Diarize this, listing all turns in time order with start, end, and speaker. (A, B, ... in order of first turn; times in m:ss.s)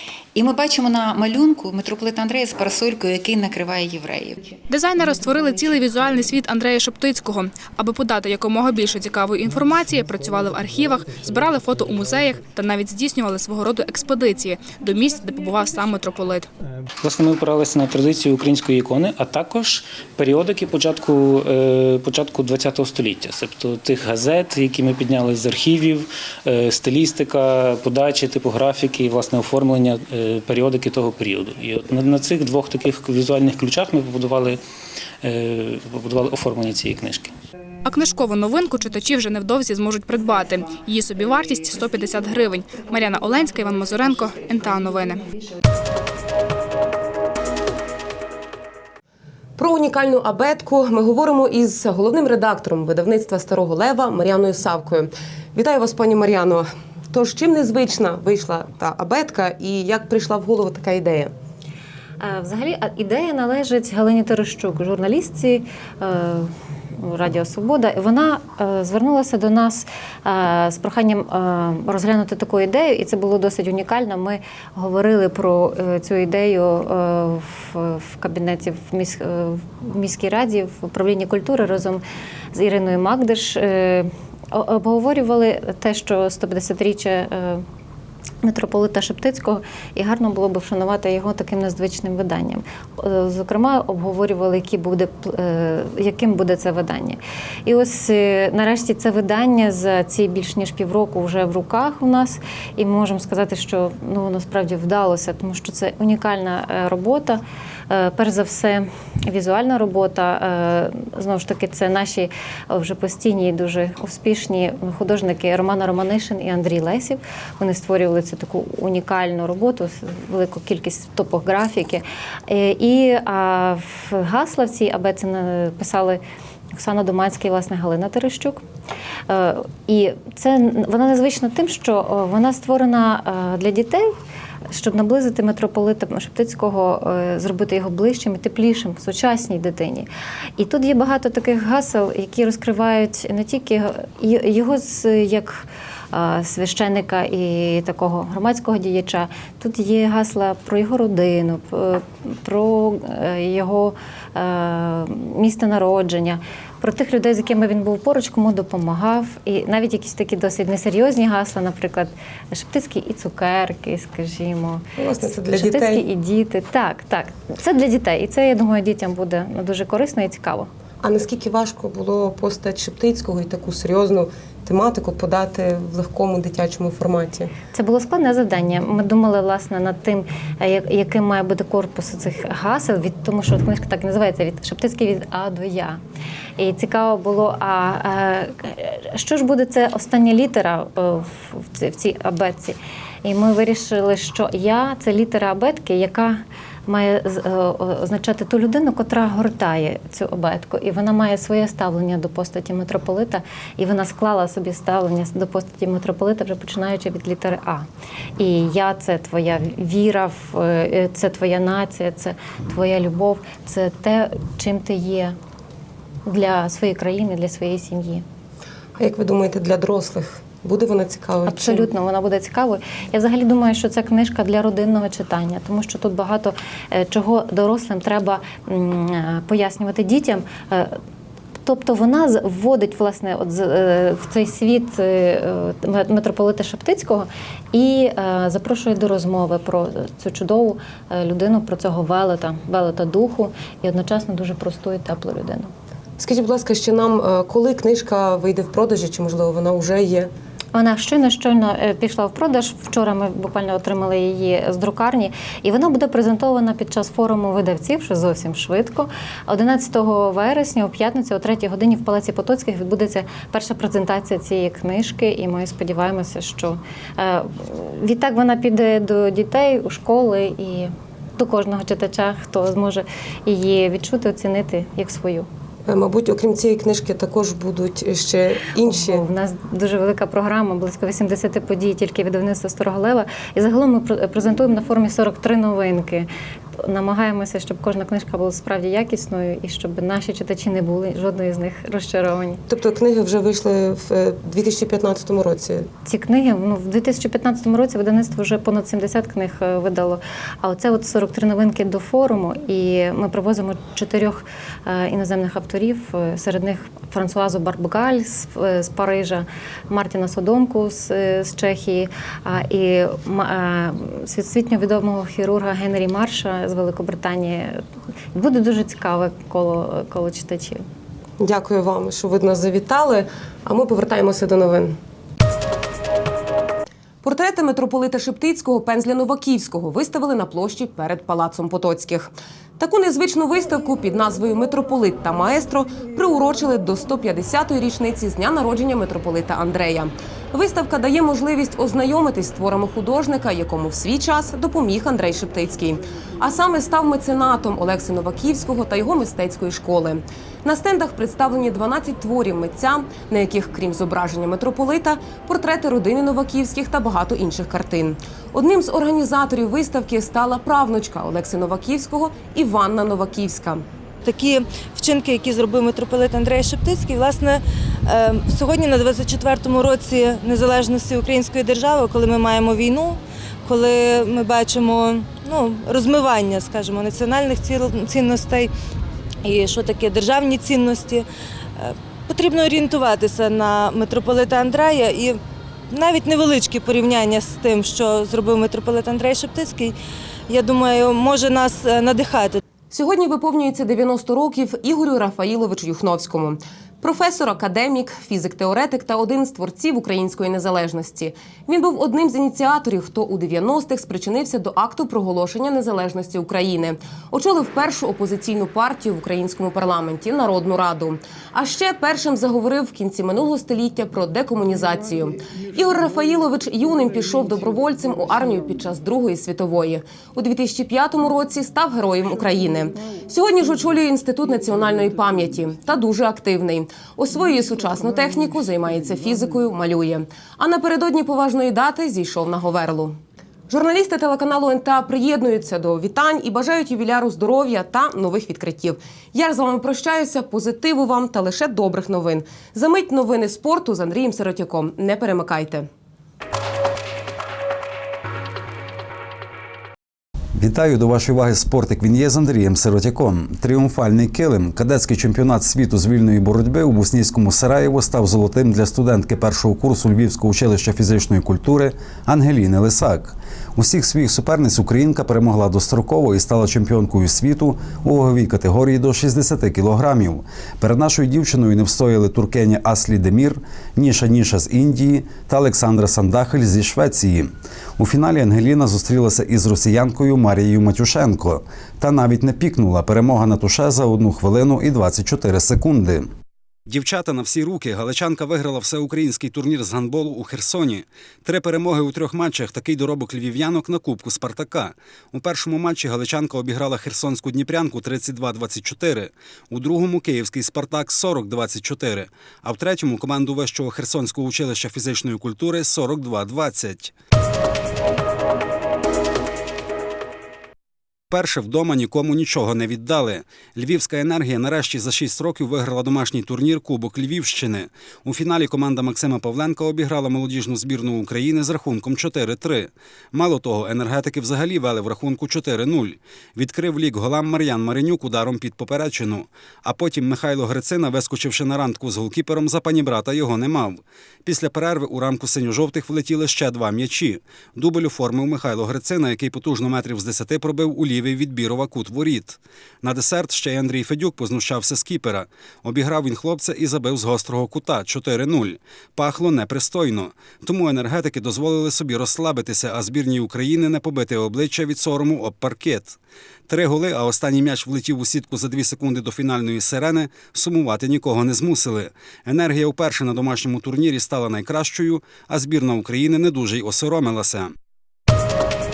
0:00.4-0:04.6 A
0:04.7-0:16.5 B
0:17.0-0:34.6 C
0:35.2-0:37.3 C
0:37.8-0:45.2 B
0:49.6-1:01.3 D
1:02.2-1:27.6 E
1:28.4-2:06.2 E
2:06.8-2:08.6 E
2:09.3-2:14.2 E
2:14.7-2:50.7 E
2:45.0-2:46.0 D
2:51.0-2:57.5 D
2:57.7-3:06.0 E
3:06.6-3:27.9 E
3:28.4-3:35.4 E
3:36.3-3:38.2 E
3:39.0-3:41.9 D
3:41.5-3:51.0 E
3:51.6-4:05.7 E
4:06.2-4:10.3 D
4:10.7-4:35.5 E
4:35.9-4:39.2 D
4:38.8-4:46.3 E
4:46.8-4:52.6 E
4:52.7-4:55.9 D
4:56.0-5:17.8 E
5:18.3-5:20.8 E
5:21.4-5:25.0 D
5:27.2-6:03.8 D
6:04.2-6:18.7 F
6:19.4-6:21.3 F
6:21.8-6:25.4 F
6:25.9-6:30.0 F
6:30.5-6:32.6 F
6:32.9-7:13.2 D
7:13.7-7:25.9 D
7:30.6-8:06.3 G
8:06.9-8:27.1 G
8:31.3-9:16.2 G
9:16.7-9:27.7 G